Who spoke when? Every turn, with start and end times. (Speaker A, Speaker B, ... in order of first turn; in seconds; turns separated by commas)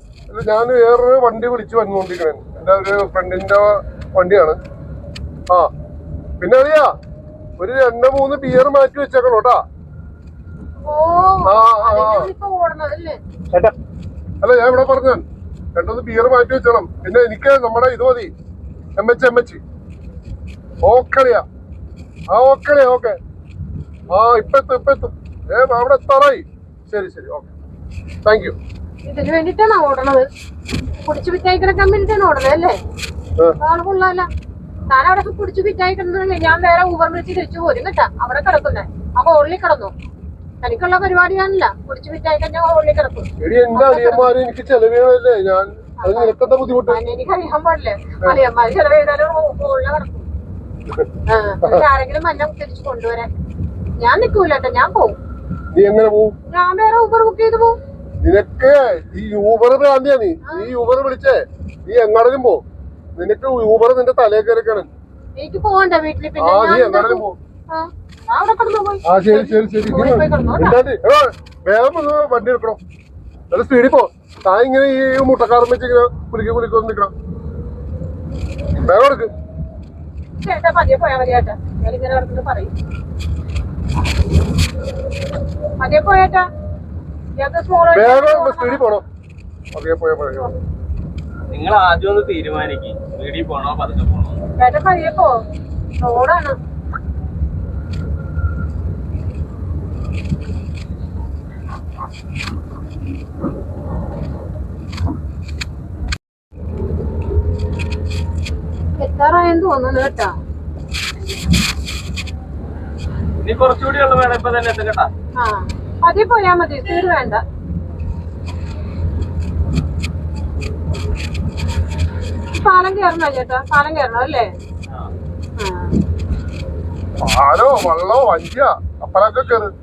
Speaker A: 0.3-4.6, Speaker A: 6.4-6.9, Speaker A: 7.6-9.6, Speaker B: 10.8-13.2, Speaker A: 11.4-12.3, Speaker A: 14.4-15.2, Speaker A: 15.7-18.3, Speaker A: 19.0-19.6, Speaker A: 20.8-21.4, Speaker A: 22.3-23.2, Speaker A: 24.1-27.5, Speaker A: 28.2-28.6, Speaker B: 29.0-30.2, Speaker B: 31.0-32.8, Speaker B: 33.6-34.3, Speaker B: 34.9-39.9, Speaker B: 40.6-44.3, Speaker A: 43.4-47.0, Speaker B: 46.0-50.3, Speaker B: 51.3-53.3, Speaker B: 54.0-55.2, Speaker A: 55.7-56.3, Speaker B: 56.5-57.8, Speaker A: 58.2-62.6, Speaker B: 60.4-60.7, Speaker A: 63.1-64.9, Speaker B: 65.3-70.8, Speaker A: 66.4-67.4, Speaker A: 69.0-72.8, Speaker A: 73.5-77.1, Speaker A: 78.7-79.3, Speaker B: 80.4-82.7, Speaker B: 85.8-86.4, Speaker B: 87.4-88.8, Speaker A: 87.9-89.0, Speaker A: 89.7-90.5, Speaker C: 91.5-94.4, Speaker B: 94.6-95.3, Speaker B: 96.0-96.5, Speaker B: 109.0-110.3, Speaker C: 113.4-115.1, Speaker B: 115.4-117.4, Speaker B: 122.5-124.5, Speaker B: 125.6-125.9, Speaker A: 127.2-129.7